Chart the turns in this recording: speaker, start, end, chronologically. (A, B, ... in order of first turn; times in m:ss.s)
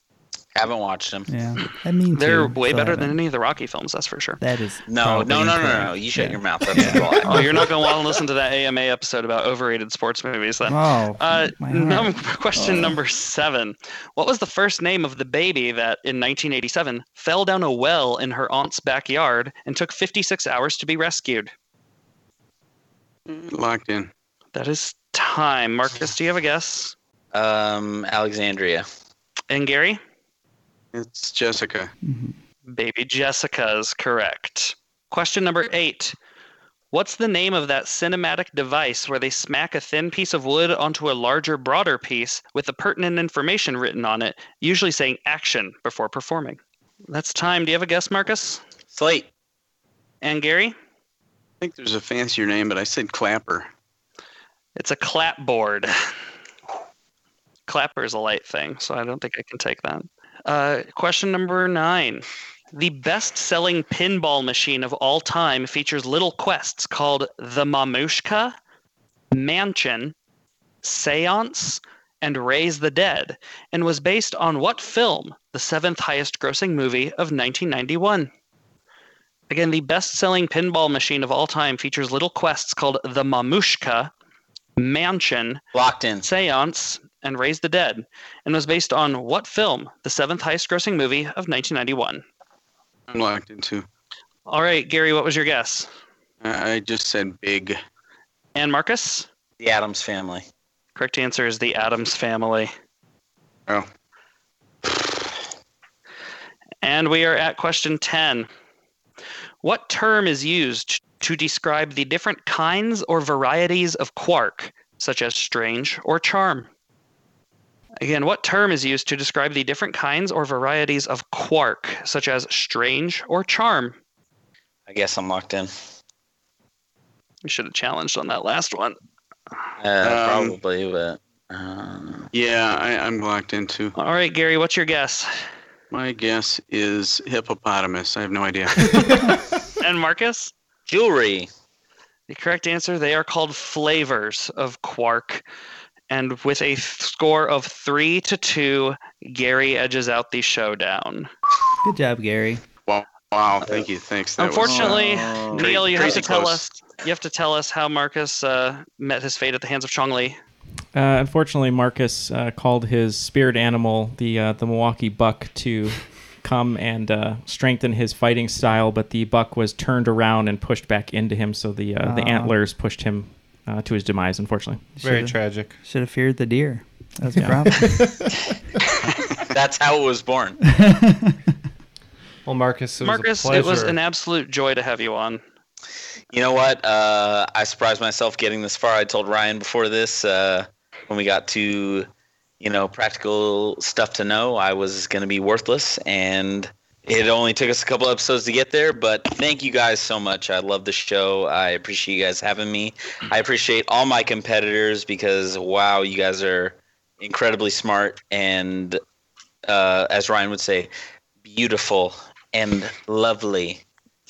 0:00.5-0:01.3 A
0:01.3-0:03.2 B
0:02.1-0:04.4 C
0:04.4-0:07.6 B
0:04.8-0:07.5 A
0:07.2-0:21.5 C
0:10.7-0:12.9 B
0:23.3-0:24.1 D
0:24.5-0:26.9 C
0:27.3-0:28.9 A
0:29.5-0:30.0 C
0:30.9-0:31.9 D
0:32.0-0:32.4 B
0:32.7-0:36.2 C
0:36.9-0:48.6 C
0:48.9-0:49.3 A
0:50.2-0:50.7 C
0:51.6-0:53.7 D
0:54.8-0:55.9 C
0:57.7-1:08.5 C
1:09.3-1:10.1 C
1:10.8-1:18.3 C
1:19.5-1:24.1 C
1:24.8-1:25.6 C
1:25.7-1:26.3 A
1:26.2-1:32.2 C
1:33.1-1:33.8 D
1:34.5-1:35.9 C
1:36.4-1:37.8 D
1:38.5-1:39.3 C
1:39.6-1:40.4 A
1:41.0-1:42.7 C
1:46.8-1:48.5 C
1:49.6-1:56.7 C
1:58.0-2:04.0 C
2:04.9-2:05.7 A
2:07.4-2:09.0 C
2:09.8-2:12.3 A
2:10.0-2:10.6 D
2:12.3-2:13.9 D
2:13.9-2:15.3 C
2:15.9-2:19.2 D
2:19.8-2:20.5 C
2:20.9-2:21.5 A
2:22.3-2:25.4 C
2:26.1-2:31.3 C
2:31.8-2:32.6 B
2:32.8-2:36.7 D
2:34.4-2:40.4 C
2:40.9-2:54.9 E
2:52.0-2:52.6 B
2:54.9-2:58.2 B
2:55.0-2:55.8 F
2:59.5-3:00.6 A
3:00.6-3:01.3 B
3:02.4-3:04.0 F
3:03.0-3:05.4 C
3:06.3-3:12.1 A
3:12.6-3:29.0 A
3:29.6-3:30.9 A
3:31.4-3:33.8 A